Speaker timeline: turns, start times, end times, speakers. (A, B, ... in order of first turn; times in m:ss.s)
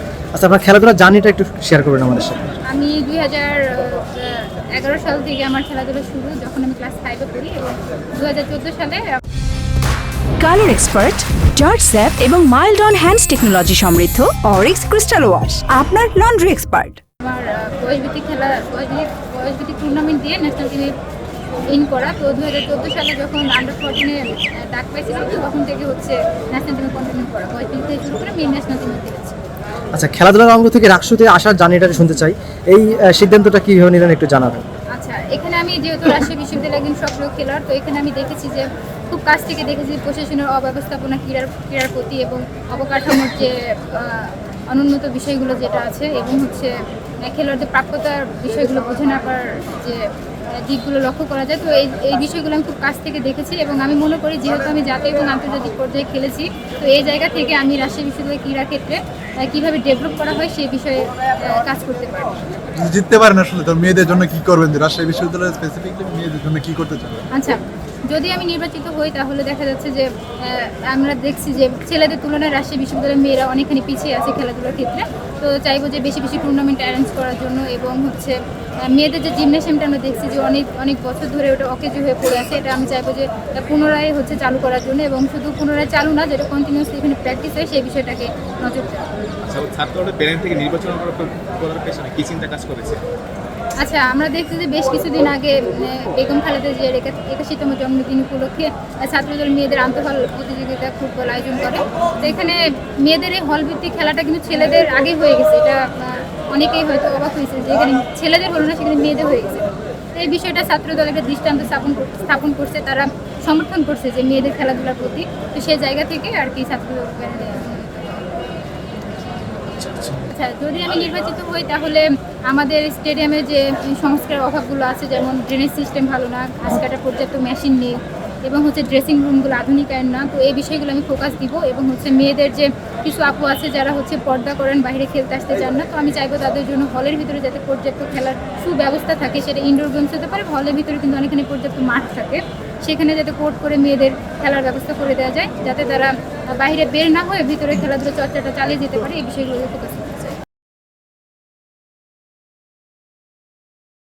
0:00.3-0:02.5 A
0:02.7-0:09.0 B
0:10.4-0:17.0 C
0:17.2-0:20.9 B
0:21.7-0:29.4 B
0:30.0-0:34.6 A
0:34.9-1:02.4 B
1:02.8-1:07.2 D
1:07.3-1:29.1 B
1:29.5-1:33.0 E
1:33.8-1:58.2 B
1:59.9-2:30.4 B